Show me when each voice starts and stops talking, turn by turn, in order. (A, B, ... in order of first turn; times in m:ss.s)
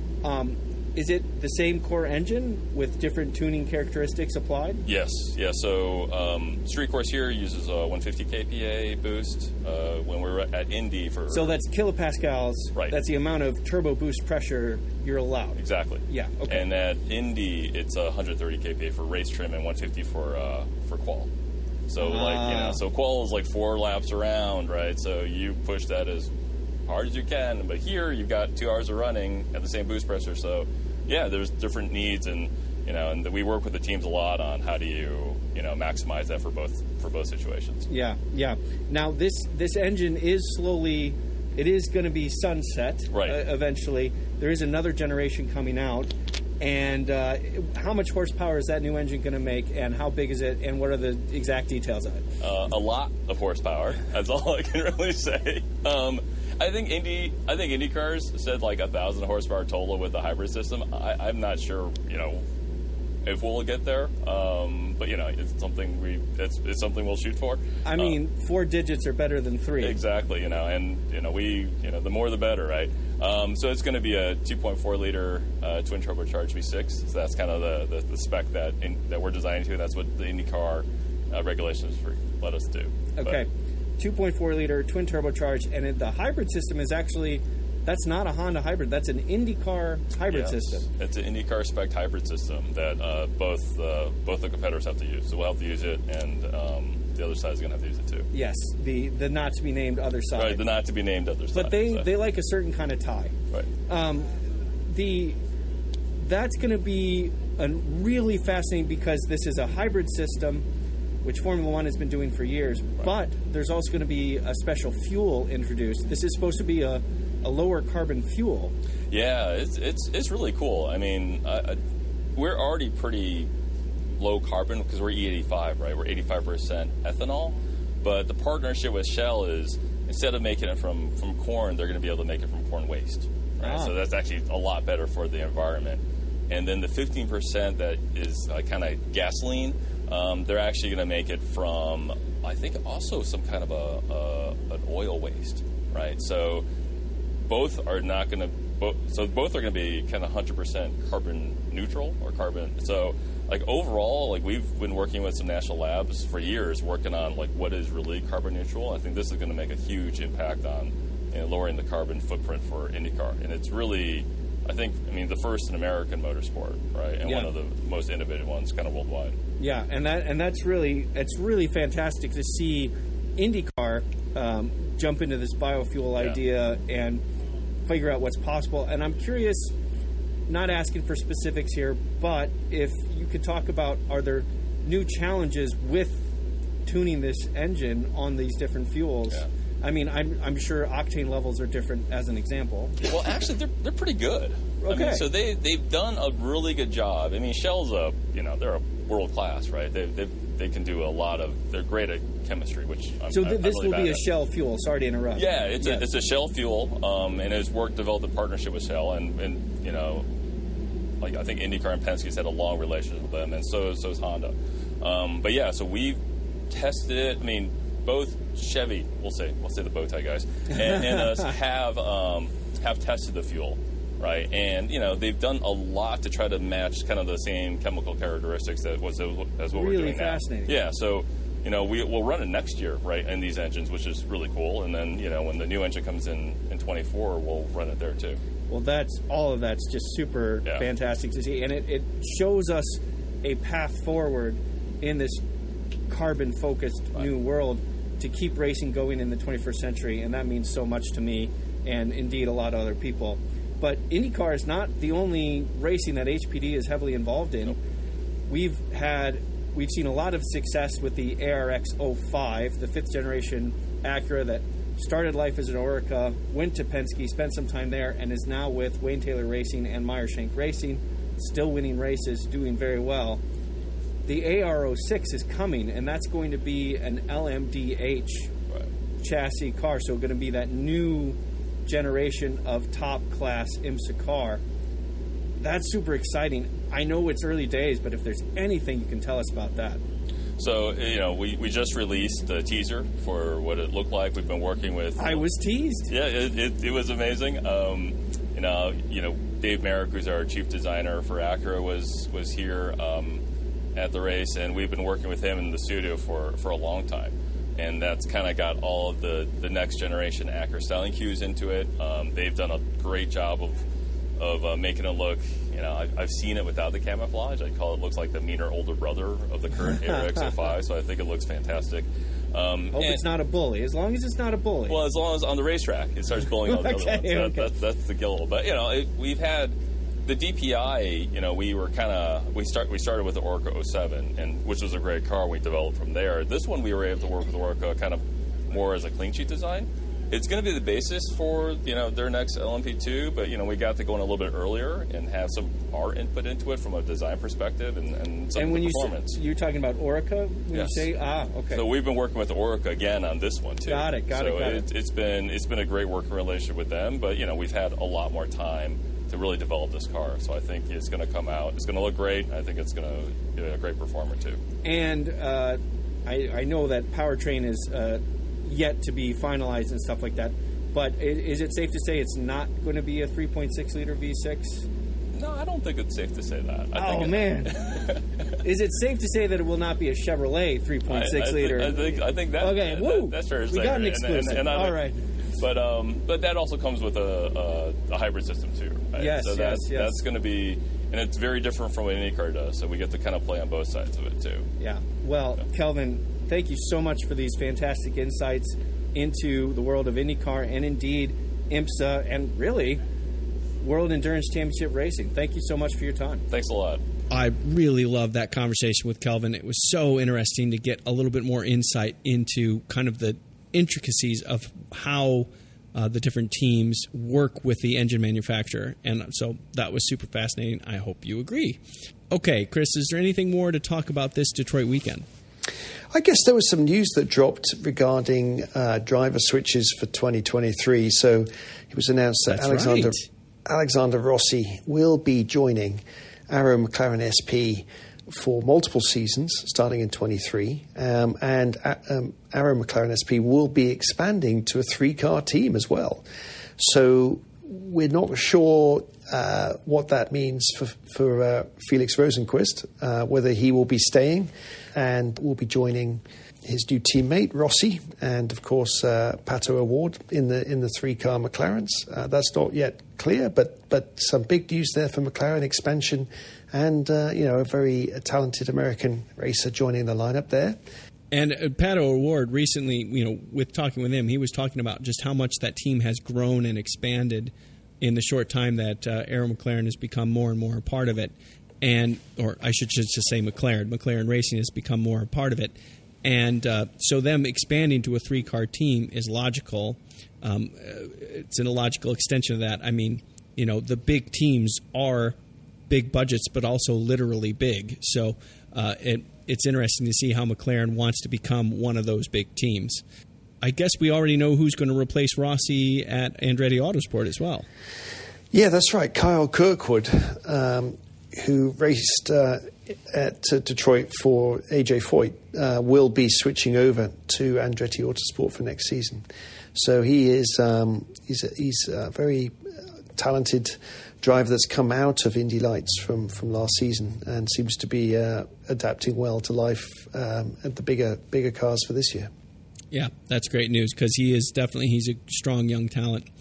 0:00.2-0:04.8 A
0:04.8-0:11.5 B
0:11.3-0:16.7 A
0:15.6-0:21.3 B
0:21.9-0:26.3 B
0:22.0-0:22.8 A
0:26.9-0:37.9 B
0:37.9-0:52.2 A
0:43.1-0:43.4 B
0:52.4-1:02.4 B
1:03.2-1:08.2 B
1:07.8-1:10.0 A
1:09.8-1:23.4 B
1:23.2-1:30.8 A
1:30.3-1:38.3 B
1:38.3-1:40.6 A
1:40.4-1:42.1 B
1:41.5-1:43.3 A
1:43.9-1:44.3 A
1:44.9-1:45.4 A
1:46.2-1:50.6 A
1:51.2-1:58.7 A
1:59.1-2:01.8 B
2:02.3-2:03.5 B
2:04.2-2:26.6 B
2:13.6-2:13.9 A
2:27.4-2:49.3 B
2:47.2-2:47.5 A
2:49.6-2:57.2 A
2:57.8-2:59.7 A
3:00.5-3:06.3 A
3:06.8-3:13.0 A
3:13.0-3:24.2 B
3:14.8-3:15.2 A
3:23.3-3:26.1 A
3:25.3-3:30.2 B
3:31.2-3:36.2 B
3:36.7-3:58.4 B
3:49.7-3:50.8 A
3:58.7-4:05.4 A
4:06.1-4:17.8 A
4:18.5-4:33.4 A
4:34.2-4:38.5 A
4:39.2-4:44.6 A
4:45.6-4:50.0 A
4:50.6-4:55.4 B
4:55.2-4:56.1 A
4:56.1-5:03.4 B
5:03.9-5:13.8 B
5:14.4-5:23.2 B
5:22.9-5:25.0 A
5:24.9-5:49.3 B
5:26.6-5:27.7 A
5:48.6-5:51.8 A
5:50.7-5:51.1 B
5:51.7-6:04.6 B
5:53.9-5:54.8 A
6:04.8-6:14.8 A
6:15.3-6:18.5 B
6:16.9-6:17.9 A
6:18.6-6:25.3 A
6:21.1-6:25.0 B
6:25.6-6:34.6 B
6:29.2-6:30.2 A
6:34.8-6:43.0 A
6:43.8-6:46.4 A
6:46.5-6:47.0 B
6:47.3-7:01.8 C
7:02.3-7:05.2 C
7:06.1-7:26.2 D
7:12.5-7:13.2 C
7:26.8-7:50.8 D
7:51.3-8:15.4 C
8:15.9-8:23.0 C
8:23.6-8:27.6 C
8:28.5-8:42.5 D
8:43.1-8:52.3 D
8:52.9-8:56.2 C